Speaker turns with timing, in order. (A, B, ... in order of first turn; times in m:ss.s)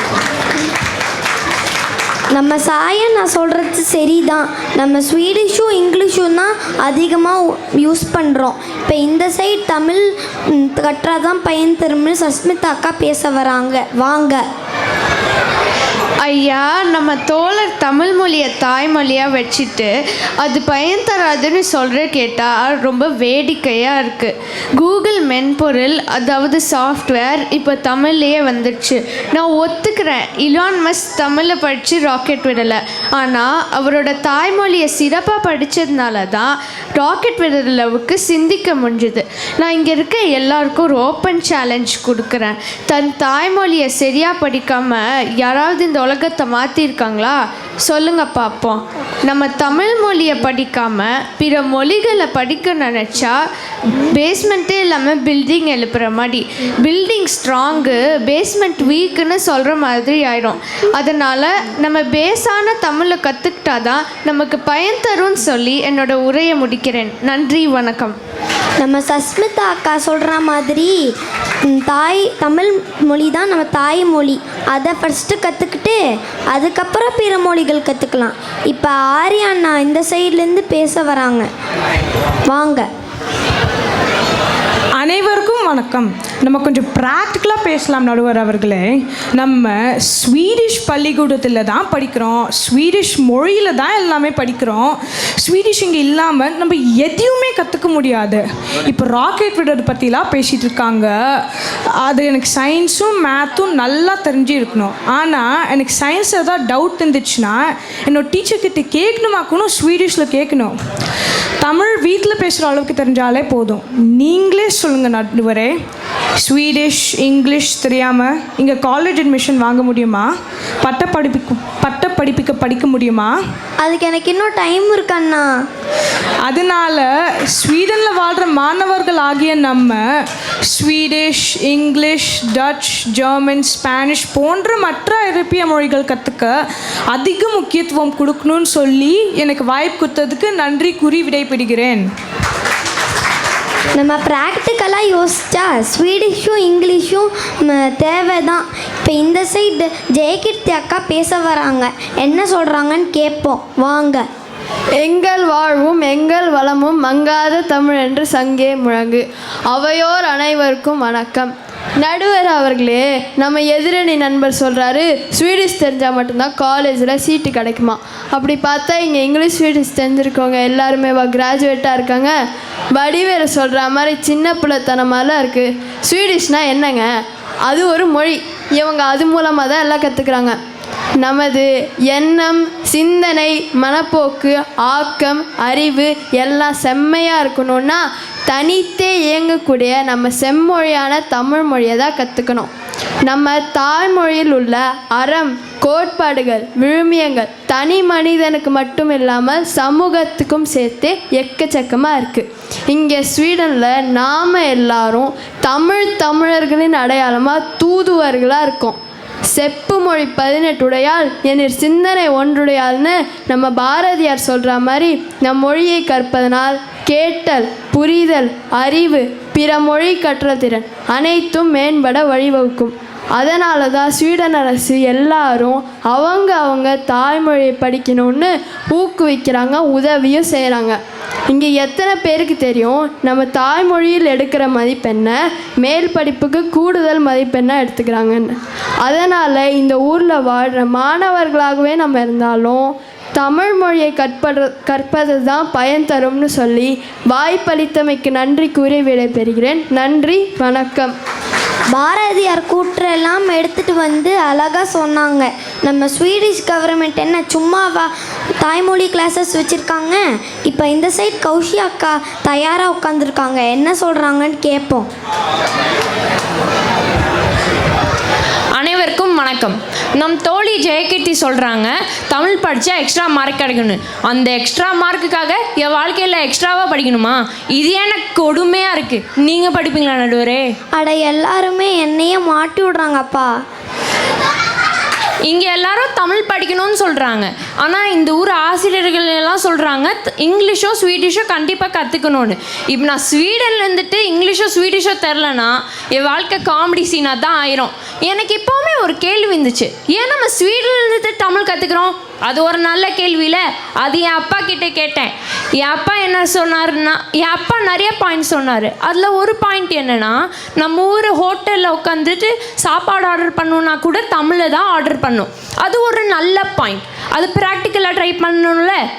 0:02.3-0:14.4 A
0:16.2-0:53.4 B
0:54.1-1:08.2 B
1:08.8-1:11.0 A
1:11.7-1:16.0 A
1:16.5-1:21.5 A
1:22.5-1:22.8 A
1:25.0-1:41.4 C
1:42.0-1:50.7 C
1:51.6-1:55.7 C
1:56.4-2:00.3 C
2:00.8-2:03.4 C
2:03.8-2:05.5 A
2:06.4-2:10.0 C
2:10.6-2:16.5 C
2:17.1-2:22.0 C
2:23.9-2:34.2 A
2:35.0-2:52.4 D
2:52.9-3:00.6 D
3:01.2-3:12.7 D
3:13.3-4:11.1 D
4:11.9-4:18.1 A
4:18.6-4:25.1 A
4:28.7-4:40.7 E
4:41.0-4:43.5 A
4:45.5-5:19.0 E